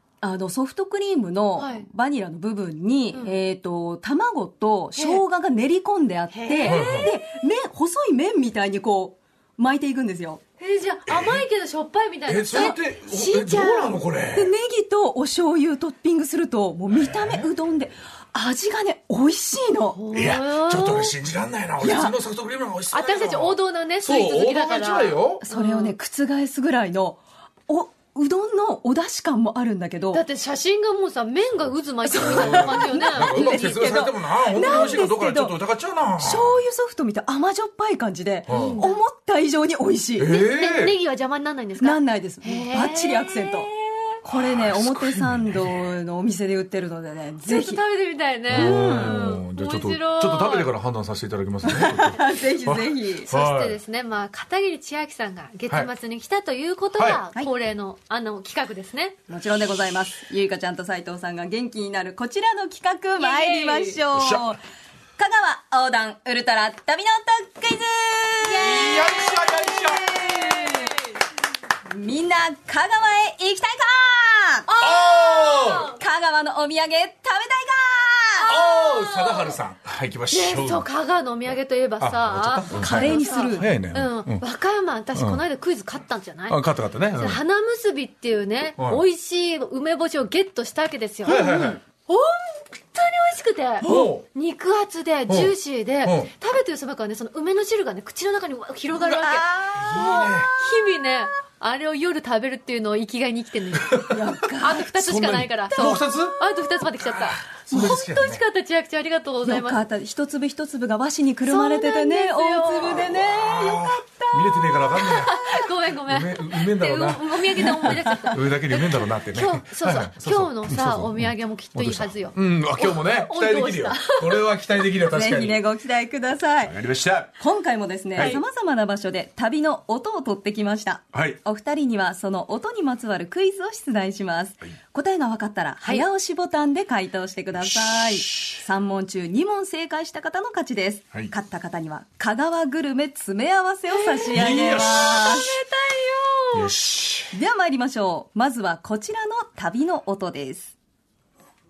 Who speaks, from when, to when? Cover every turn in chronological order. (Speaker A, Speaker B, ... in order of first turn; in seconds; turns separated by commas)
Speaker A: 0.2-10.4, Speaker B: 1.6-1.9, Speaker B: 5.0-5.2, Speaker B: 6.3-7.2, Speaker C: 6.6-7.1, Speaker B: 10.6-14.0, Speaker C: 11.1-11.4, Speaker C: 12.3-14.5, Speaker A: 14.3-20.0, Speaker C: 16.9-17.5, Speaker B: 19.9-21.1, Speaker C: 20.1-25.4, Speaker A: 21.8-22.2, Speaker B: 22.9-25.9, Speaker A: 25.4-30.2, Speaker B: 30.1-33.7, Speaker A: 32.0-35.5, Speaker C: 32.2-36.6, Speaker B: 34.6-35.0, Speaker A: 36.2-40.4, Speaker C: 38.5-38.8, Speaker B: 38.5-39.0, Speaker C: 40.2-41.0, Speaker B: 40.3-44.0, Speaker A: 41.8-43.7, Speaker A: 44.2-47.8, Speaker C: 44.2-45.9, Speaker B: 47.5-50.7, Speaker C: 48.5-53.8, Speaker A: 48.5-49.2, Speaker A: 51.6-53.3, Speaker B: 53.3-59.2, Speaker A: 59.3-64.6, Speaker B: 63.2-64.0, Speaker C: 64.1-64.5, Speaker A: 65.2-69.0, Speaker B: 68.4-70.9, Speaker C: 68.6-70.8, Speaker A: 71.9-74.7, Speaker B: 74.7-76.0, Speaker C: 74.8-75.9, Speaker A: 75.9-78.5, Speaker B: 78.4-79.6, Speaker C: 78.5-80.9, Speaker B: 80.3-86.6, Speaker C: 82.0-84.4, Speaker A: 82.8-83.7, Speaker C: 85.1-85.4, Speaker C: 86.5-87.4, Speaker B: 87.2-109.8, Speaker C: 88.8-89.0, Speaker C: 91.2-91.8, Speaker A: 93.8-94.1, Speaker C: 93.8-94.2, Speaker C: 95.3-96.3, Speaker A: 99.0-99.8, Speaker C: 99.8-100.5, Speaker C: 103.8-104.2, Speaker A: 104.1-104.9, Speaker C: 104.9-106.4, Speaker C: 106.9-108.4, Speaker A: 107.7-108.0, Speaker A: 109.4-114.2, Speaker B: 111.5-113.1, Speaker C: 112.8-125.6, Speaker B: 114.7-124.5, Speaker A: 125.1-126.9, Speaker C: 126.6-127.3, Speaker A: 127.4-145.6, Speaker C: 131.1-131.4, Speaker C: 137.8-138.6, Speaker B: 143.9-146.7, Speaker C: 144.3-145.3, Speaker C: 146.5-147.3, Speaker A: 147.3-150.8